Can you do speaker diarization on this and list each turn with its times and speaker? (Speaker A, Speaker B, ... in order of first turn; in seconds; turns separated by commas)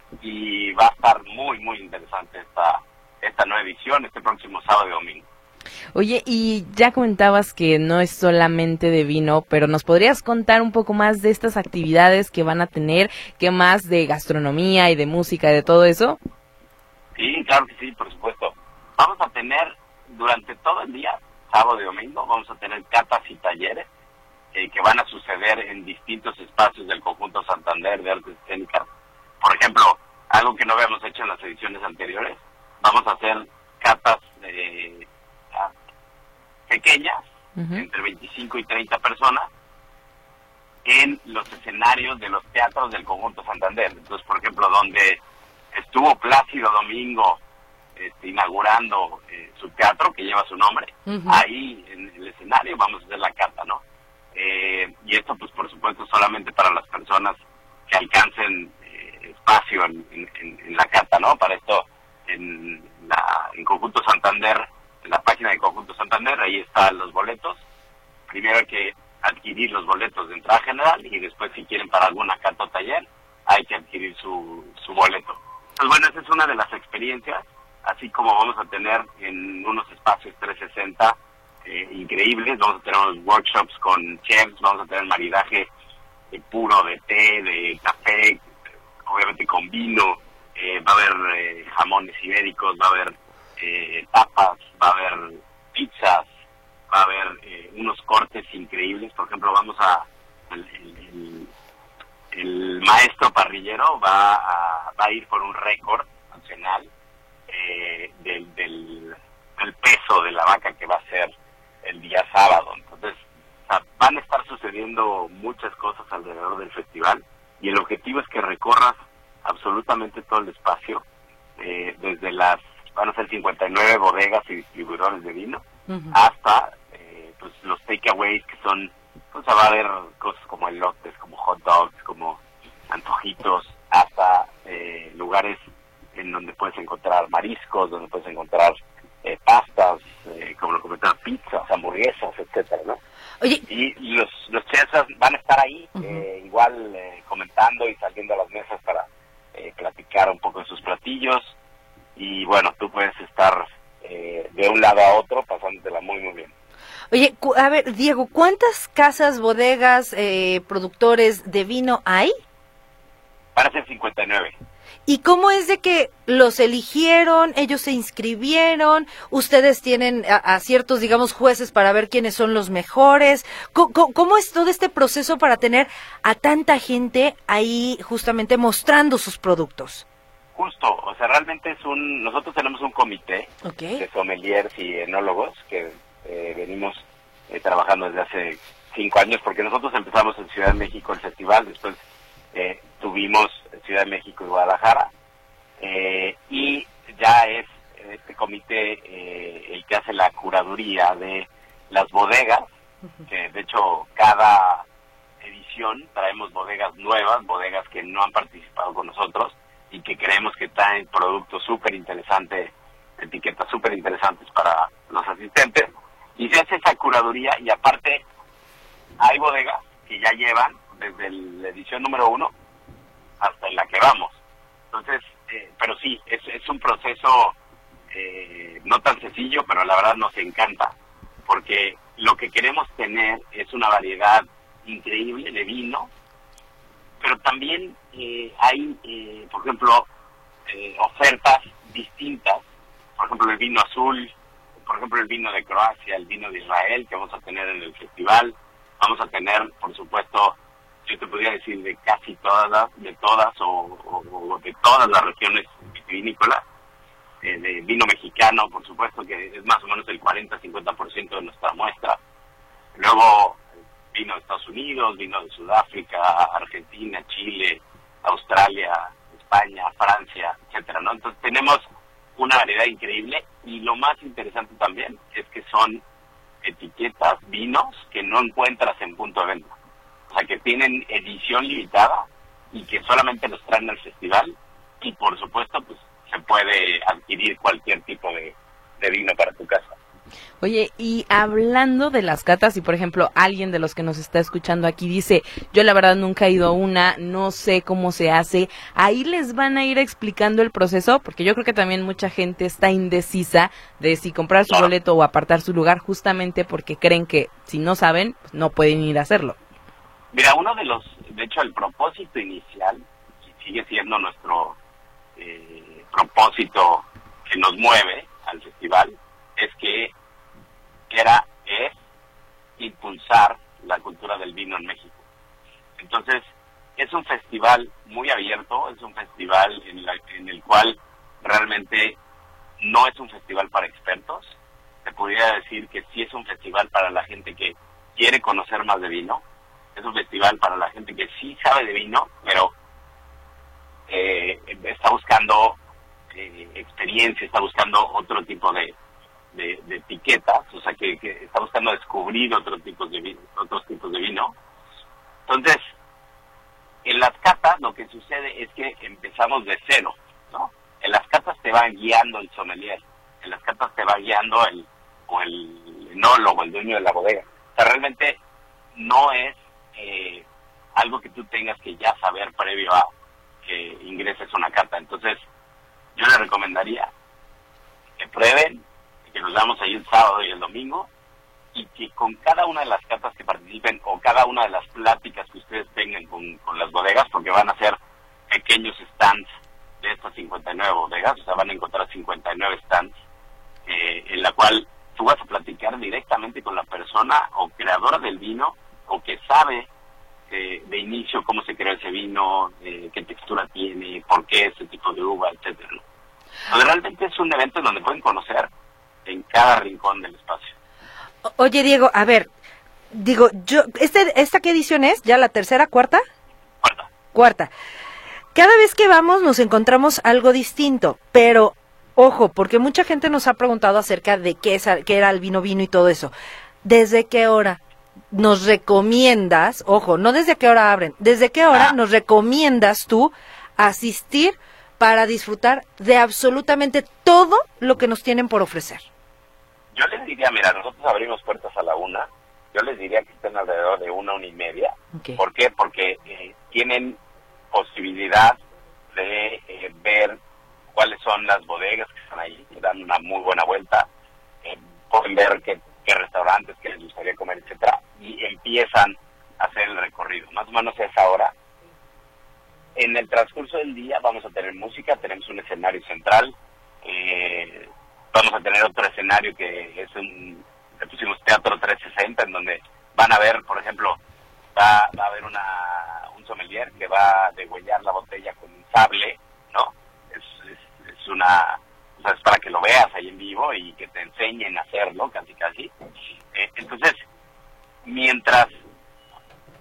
Speaker A: 0.2-5.2, Speaker B: 5.9-16.2, Speaker A: 17.2-23.9, Speaker A: 24.5-28.9, Speaker A: 29.4-35.7, Speaker A: 36.7-37.2, Speaker B: 37.6-37.8, Speaker A: 37.7-39.5, Speaker A: 40.9-45.2, Speaker A: 45.7-47.4, Speaker A: 48.0-53.8, Speaker C: 51.1-51.4, Speaker A: 54.4-57.4, Speaker A: 57.9-67.6, Speaker A: 68.3-85.7, Speaker A: 86.3-88.4, Speaker A: 89.1-96.3, Speaker A: 96.9-101.5, Speaker A: 102.3-106.9, Speaker A: 107.5-111.3, Speaker A: 111.8-121.0, Speaker A: 121.6-135.6, Speaker C: 125.9-126.2, Speaker A: 136.2-143.0, Speaker A: 143.7-151.5, Speaker C: 146.0-146.2, Speaker A: 152.2-156.5, Speaker C: 157.1-162.3, Speaker A: 163.6-164.5, Speaker C: 165.1-180.1, Speaker A: 180.6-187.0, Speaker C: 183.6-184.0, Speaker A: 187.5-192.0, Speaker A: 192.5-195.1, Speaker A: 195.8-202.7, Speaker A: 203.3-204.8, Speaker A: 205.4-218.2, Speaker A: 219.2-222.5, Speaker A: 223.4-224.4, Speaker A: 224.9-227.6, Speaker A: 228.1-230.9, Speaker A: 231.5-236.1, Speaker A: 237.2-240.1, Speaker A: 240.7-242.6, Speaker A: 243.2-244.3, Speaker A: 244.9-256.6, Speaker A: 257.4-262.2, Speaker A: 262.9-263.6, Speaker A: 264.1-271.8, Speaker A: 272.4-276.0, Speaker A: 276.6-279.7, Speaker A: 280.3-289.9, Speaker B: 290.6-309.6, Speaker A: 310.3-314.8, Speaker A: 315.4-320.1, Speaker A: 321.1-321.9, Speaker A: 322.8-325.2, Speaker A: 326.0-326.4, Speaker A: 327.0-332.2, Speaker A: 332.8-334.5, Speaker A: 335.1-339.4, Speaker A: 340.0-342.7, Speaker A: 344.1-345.8, Speaker A: 346.3-348.9, Speaker A: 349.5-354.5, Speaker A: 355.5-355.8, Speaker A: 357.1-368.4, Speaker A: 369.0-370.4, Speaker A: 371.0-373.1, Speaker A: 373.6-375.4, Speaker A: 376.2-377.1, Speaker A: 378.2-381.1, Speaker A: 381.7-388.0, Speaker A: 388.5-389.4, Speaker A: 390.0-393.1, Speaker A: 393.9-399.9, Speaker A: 400.5-406.0, Speaker A: 406.7-408.7, Speaker A: 409.3-410.7, Speaker C: 411.5-412.5, Speaker C: 413.1-416.2, Speaker A: 416.8-417.1, Speaker C: 417.3-417.7, Speaker C: 418.6-426.3, Speaker C: 426.8-427.8, Speaker C: 428.3-439.0, Speaker A: 439.9-447.2, Speaker C: 445.1-445.4, Speaker A: 447.7-448.6, Speaker A: 449.1-450.4, Speaker A: 450.9-454.1, Speaker A: 454.6-461.5, Speaker A: 463.0-474.2, Speaker A: 474.8-485.9, Speaker A: 486.5-487.2, Speaker A: 488.1-488.7